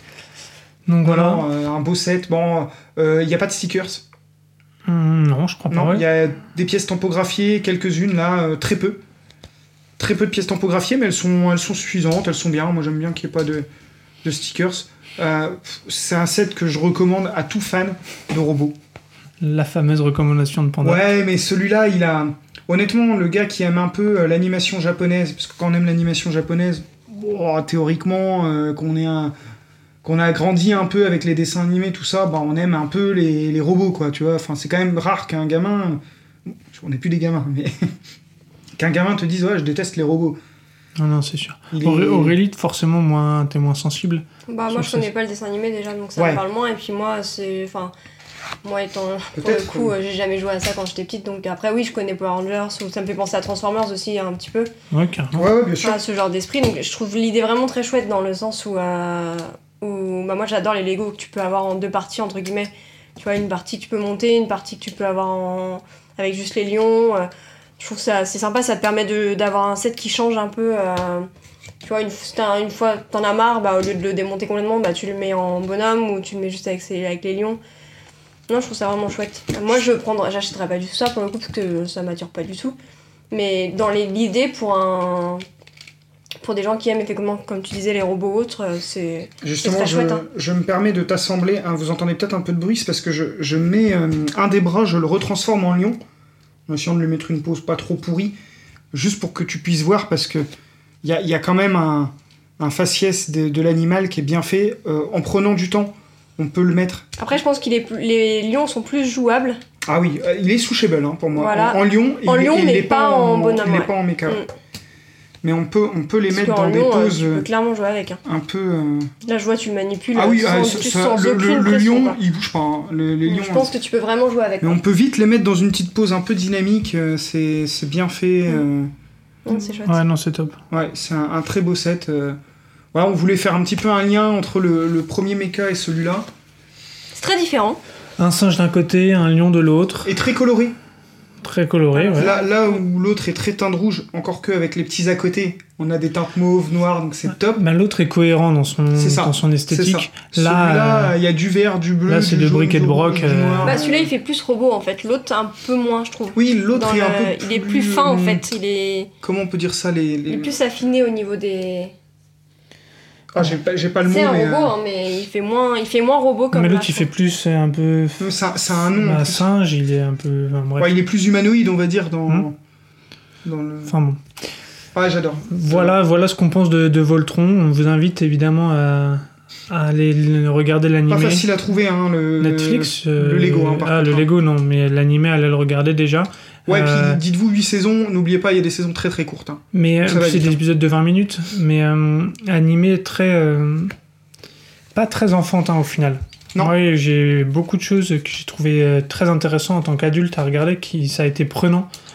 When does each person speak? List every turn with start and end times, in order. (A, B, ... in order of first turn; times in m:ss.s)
0:00.9-0:01.4 A
0:01.0-0:04.0 B
0:04.9-0:06.0 A
0:05.7-0:09.0 B
0:10.0-0:13.7 B
0:14.2-0:18.8 B
0:19.4-0:21.1 A
0:20.8-0:29.3 B
0:30.0-0:36.0 B
0:36.7-0:37.7 B
0:38.8-0:40.4 B
0:41.0-0:45.1 A
0:41.7-0:42.4 B
0:44.5-0:47.9 C
0:46.2-0:46.4 B
0:48.6-0:54.7 C
0:49.4-0:49.9 B
0:54.9-0:55.4 A
0:55.3-0:56.0 B
0:55.8-1:11.3 C
1:11.8-1:17.6 C
1:18.5-1:22.8 C
1:23.3-1:25.4 C
1:26.4-1:30.2 C
1:29.4-1:36.0 B
1:36.7-1:38.4 B
1:38.9-1:40.5 B
1:41.0-1:47.2 B
1:47.2-1:49.6 C
1:49.9-1:54.4 B
1:51.4-1:54.5 C
1:55.4-1:57.5 B
1:56.3-1:58.2 C
1:58.2-1:59.1 B
1:59.2-2:02.2 C
2:00.1-2:03.8 B
2:03.3-2:04.8 C
2:04.6-2:08.9 B
2:09.5-2:10.0 C
2:09.9-2:10.6 A
2:10.7-2:12.4 B
2:12.9-2:16.3 B
2:17.2-2:17.8 C
2:18.2-2:20.1 A
2:20.0-2:20.8 B
2:21.4-2:22.3 A
2:21.9-2:22.8 C
2:22.2-2:27.6 B
2:27.6-2:31.2 A
2:29.0-2:34.1 B
2:32.1-2:33.8 A
2:33.6-2:39.1 C
2:36.4-2:38.5 B
2:39.2-2:40.6 B
2:40.3-2:41.9 C
2:43.3-2:44.7 B
2:44.0-2:47.1 C
2:46.5-2:48.3 A
2:48.2-2:49.5 B
2:48.9-2:50.9 A
2:50.8-2:52.6 B
2:53.4-2:54.0 B
2:53.9-2:54.2 A
2:54.9-2:56.0 B
2:55.5-3:01.5 A
3:01.1-3:04.3 B
3:02.4-3:07.2 A
3:06.7-3:10.6 B
3:09.7-3:13.9 A
3:14.9-3:21.9 A